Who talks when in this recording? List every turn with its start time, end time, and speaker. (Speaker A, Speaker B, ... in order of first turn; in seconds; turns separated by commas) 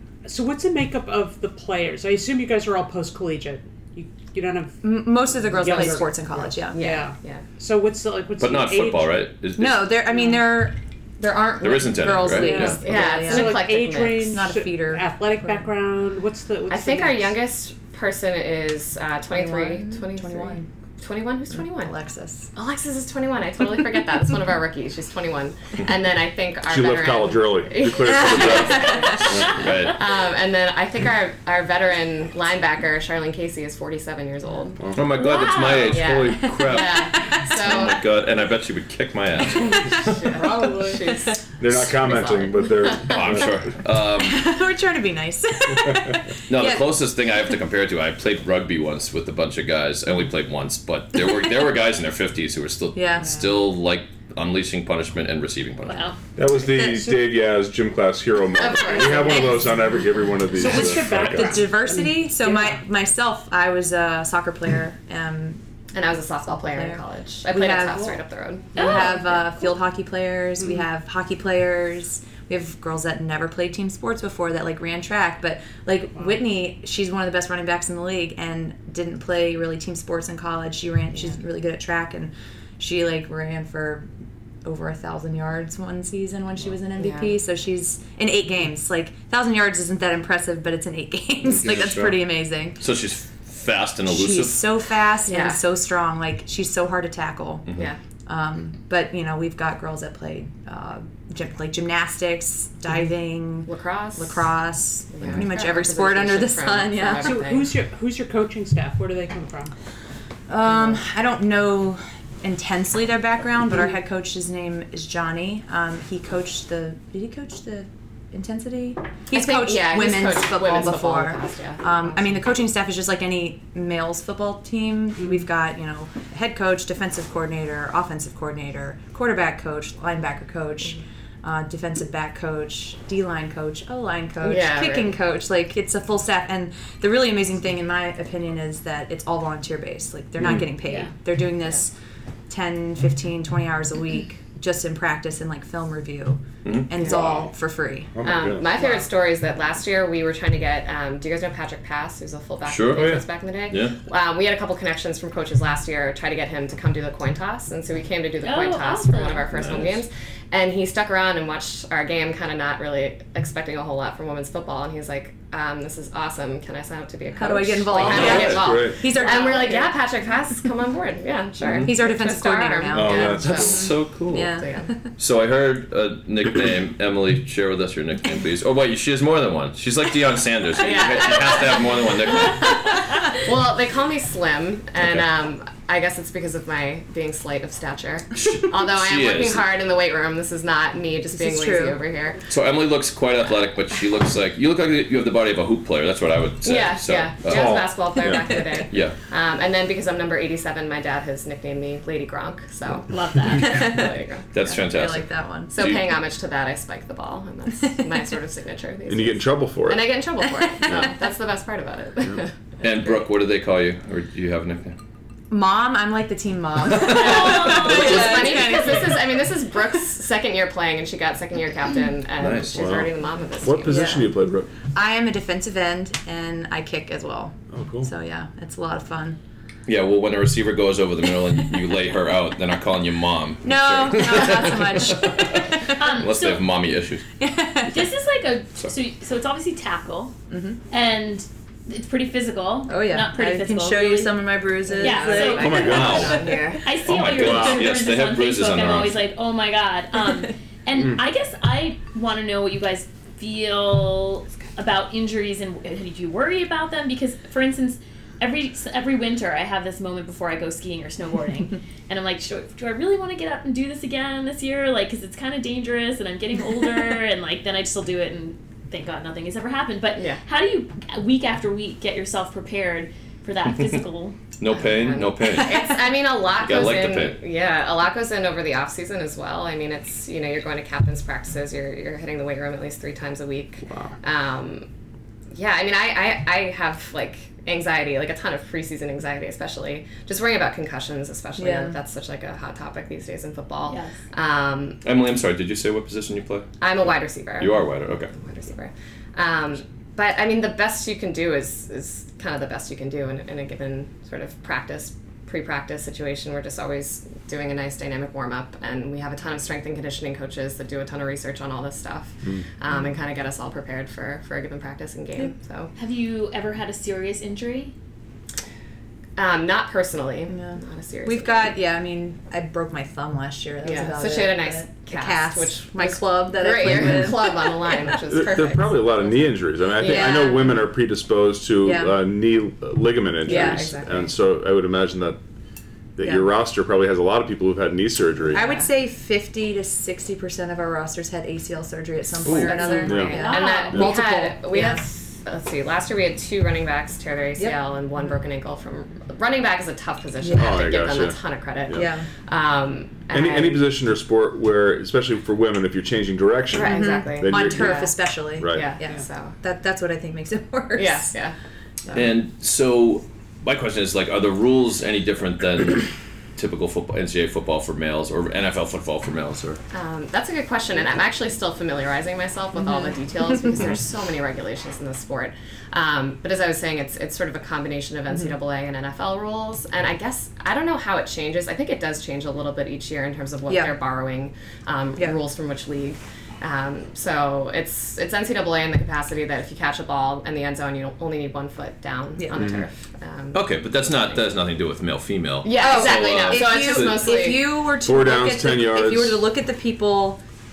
Speaker A: 0.2-9.2, Speaker B: 4.8-6.8, Speaker C: 5.6-6.2, Speaker C: 6.7-7.4, Speaker D: 8.4-9.9, Speaker B: 9.6-15.7, Speaker D: 11.6-12.8, Speaker A: 12.3-17.4, Speaker C: 12.8-14.4, Speaker C: 16.7-21.9, Speaker B: 19.3-20.7, Speaker B: 21.5-22.5, Speaker C: 22.5-38.0, Speaker E: 26.6-29.7, Speaker B: 28.0-29.4, Speaker D: 29.5-30.0, Speaker E: 34.8-35.1, Speaker D: 34.9-40.1, Speaker F: 35.2-35.9, Speaker B: 36.4-37.5, Speaker C: 40.0-43.5, Speaker A: 40.3-41.1, Speaker E: 41.6-43.5, Speaker D: 43.1-44.5, Speaker B: 44.0-47.0, Speaker D: 46.5-56.1, Speaker B: 52.9-53.4, Speaker F: 55.9-56.2, Speaker E: 56.4-61.7, Speaker A: 56.8-57.3, Speaker C: 58.5-59.6, Speaker A: 58.9-59.8, Speaker B: 59.0-59.8, Speaker A: 60.5-62.8, Speaker B: 60.6-65.6, Speaker C: 65.9-69.2, Speaker B: 66.5-68.2, Speaker A: 67.9-68.2, Speaker F: 68.7-69.3, Speaker B: 68.7-84.1, Speaker B: 84.6-92.8, Speaker C: 87.0-87.3, Speaker D: 92.8-94.6, Speaker B: 94.1-97.7, Speaker C: 95.3-95.6, Speaker B: 98.2-107.4, Speaker C: 103.7-104.5, Speaker C: 105.1-107.7, Speaker A: 107.2-109.7, Speaker B: 110.5-141.9, Speaker C: 119.3-122.3, Speaker C: 134.4-135.2, Speaker B: 142.5-148.1, Speaker D: 146.6-146.9, Speaker C: 147.0-147.4, Speaker E: 147.0-147.5, Speaker E: 148.1-149.0, Speaker C: 148.2-174.9, Speaker D: 152.6-153.9, Speaker F: 158.4-159.5, Speaker D: 159.5-160.0, Speaker B: 167.3-169.9, Speaker D: 168.0-168.6, Speaker E: 168.0-169.0, Speaker F: 169.2-169.8, Speaker B: 171.8-173.6, Speaker E: 172.9-173.9, Speaker D: 173.4-174.5, Speaker B: 174.3-175.1, Speaker D: 175.2-183.0, Speaker C: 180.8-192.4, Speaker D: 188.3-189.7, Speaker B: 191.3-192.0, Speaker D: 192.5-197.9, Speaker C: 196.6-204.8, Speaker E: 197.4-198.5, Speaker D: 198.9-199.2, Speaker F: 203.1-203.7, Speaker B: 203.5-204.1, Speaker D: 204.5-206.2, Speaker B: 204.7-205.7, Speaker C: 205.7-212.5, Speaker E: 209.1-210.2, Speaker B: 210.5-211.1, Speaker D: 212.8-214.9, Speaker B: 215.5-219.3, Speaker D: 217.1-217.4, Speaker C: 217.1-224.3, Speaker F: 217.1-218.2, Speaker D: 218.1-218.3, Speaker D: 222.4-223.0, Speaker E: 222.7-224.7, Speaker B: 223.8-224.3, Speaker B: 224.9-229.4, Speaker E: 227.7-228.1, Speaker D: 229.8-237.2, Speaker B: 233.6-235.7, Speaker F: 235.9-236.6, Speaker B: 237.4-238.1, Speaker F: 237.9-240.3, Speaker B: 240.5-240.8, Speaker F: 240.9-246.2, Speaker B: 242.9-246.6, Speaker C: 244.9-246.9, Speaker E: 245.6-246.4, Speaker D: 245.8-246.5, Speaker F: 246.8-274.4, Speaker D: 247.0-249.2, Speaker C: 270.1-270.4, Speaker D: 274.6-276.0, Speaker C: 274.7-284.9, Speaker D: 276.6-277.4, Speaker C: 285.5-295.0, Speaker B: 291.6-291.9, Speaker F: 293.9-294.2, Speaker D: 295.0-296.8, Speaker C: 296.8-315.9, Speaker D: 297.6-298.3, Speaker E: 312.4-312.7, Speaker F: 315.9-317.9, Speaker C: 319.4-321.7, Speaker B: 320.5-328.0, Speaker C: 323.8-329.4, Speaker E: 328.3-335.4, Speaker C: 330.0-330.7, Speaker B: 330.0-330.7, Speaker B: 331.8-332.2, Speaker C: 333.4-334.3, Speaker B: 333.4-334.0, Speaker E: 336.2-338.6, Speaker B: 338.5-345.0, Speaker C: 338.5-338.9, Speaker D: 342.4-342.8, Speaker C: 342.5-353.9, Speaker F: 342.8-344.0, Speaker E: 343.0-344.1, Speaker B: 350.4-350.9, Speaker E: 350.5-352.1, Speaker B: 351.9-352.3, Speaker E: 353.3-358.9, Speaker B: 356.7-361.3, Speaker C: 356.7-358.2, Speaker C: 358.7-359.5, Speaker C: 360.9-361.5, Speaker D: 362.1-369.8, Speaker C: 369.9-394.5, Speaker B: 372.8-373.7, Speaker B: 383.7-383.9, Speaker B: 392.4-392.8, Speaker E: 392.5-392.8, Speaker D: 393.5-397.3, Speaker C: 395.6-397.6, Speaker B: 395.7-400.4, Speaker E: 398.0-399.4